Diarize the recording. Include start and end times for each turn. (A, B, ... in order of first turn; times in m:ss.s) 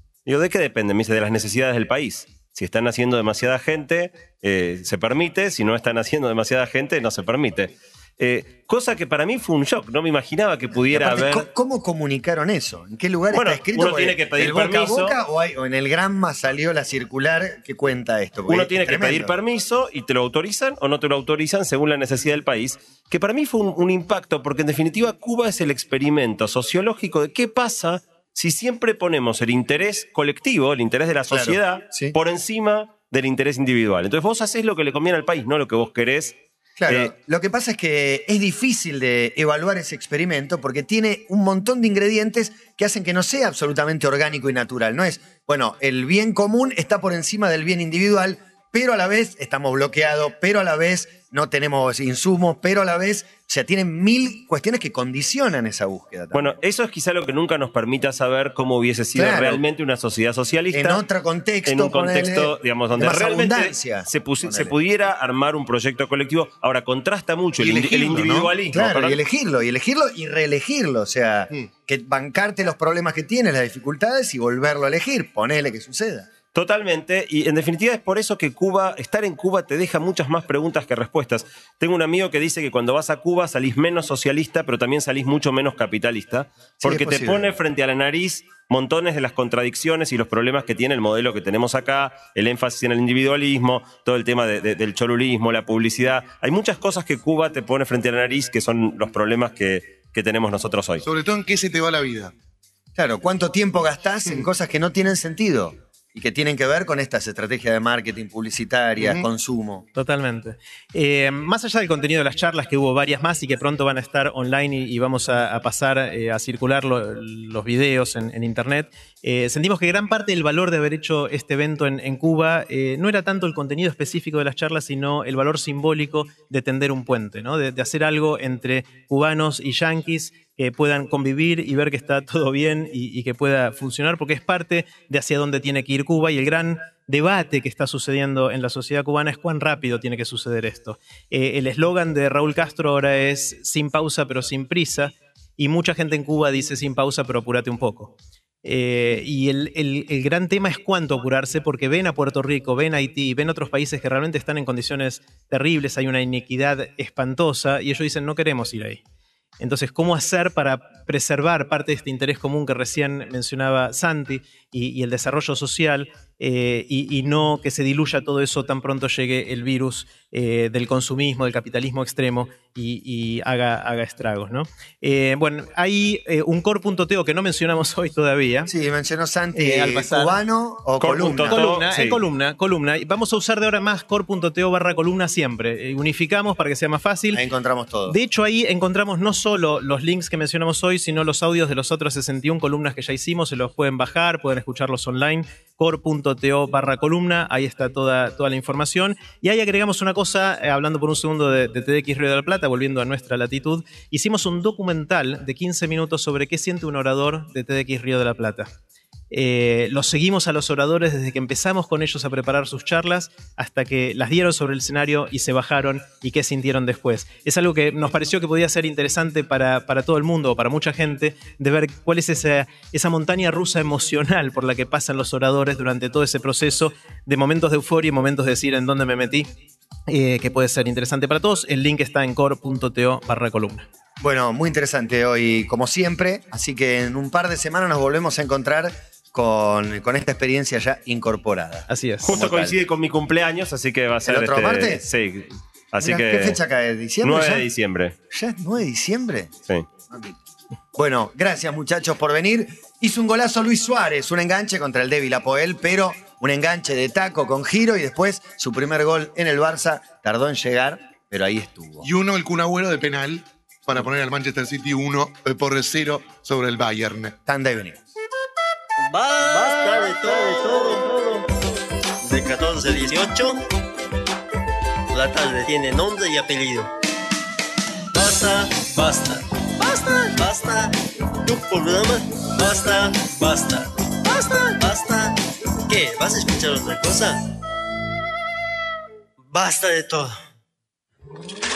0:00.3-0:11.5 A
0:10.9-0:19.3 B
0:13.3-0:15.2 A
0:18.5-0:37.1 A
0:31.3-0:32.2 B
0:36.8-0:56.6 B
0:56.3-1:01.0 A
0:59.1-0:59.6 B
1:00.7-1:04.8 B
1:01.6-1:09.2 A
1:07.6-1:08.5 C
1:08.1-1:16.3 B
1:16.5-1:41.0 A
1:26.8-1:27.5 B
1:41.0-1:42.3 C
1:43.0-1:49.9 B
1:49.0-1:49.3 C
1:50.0-2:39.0 D
2:39.6-2:58.7 D
2:58.7-3:01.6 B
2:59.5-3:00.4 D
3:01.0-3:02.2 A
3:01.5-3:07.4 D
3:07.3-3:08.2 B
3:08.1-3:28.7 D
3:29.3-3:49.5 D
3:50.1-3:53.9 D
3:54.2-4:02.8 B
4:01.9-4:02.3 D
4:02.2-4:06.6 A
4:04.2-4:05.0 B
4:06.0-4:07.7 B
4:07.2-4:08.2 A
4:08.3-4:09.5 B
4:10.1-4:10.4 B
4:11.0-4:22.1 B
4:22.0-4:27.4 C
4:27.5-4:28.0 B
4:29.1-4:31.5 E
4:32.2-4:33.6 E
4:35.1-4:36.9 E
4:38.2-4:40.9 E
4:41.4-4:45.4 E
4:45.9-4:47.4 E
4:49.5-4:50.3 E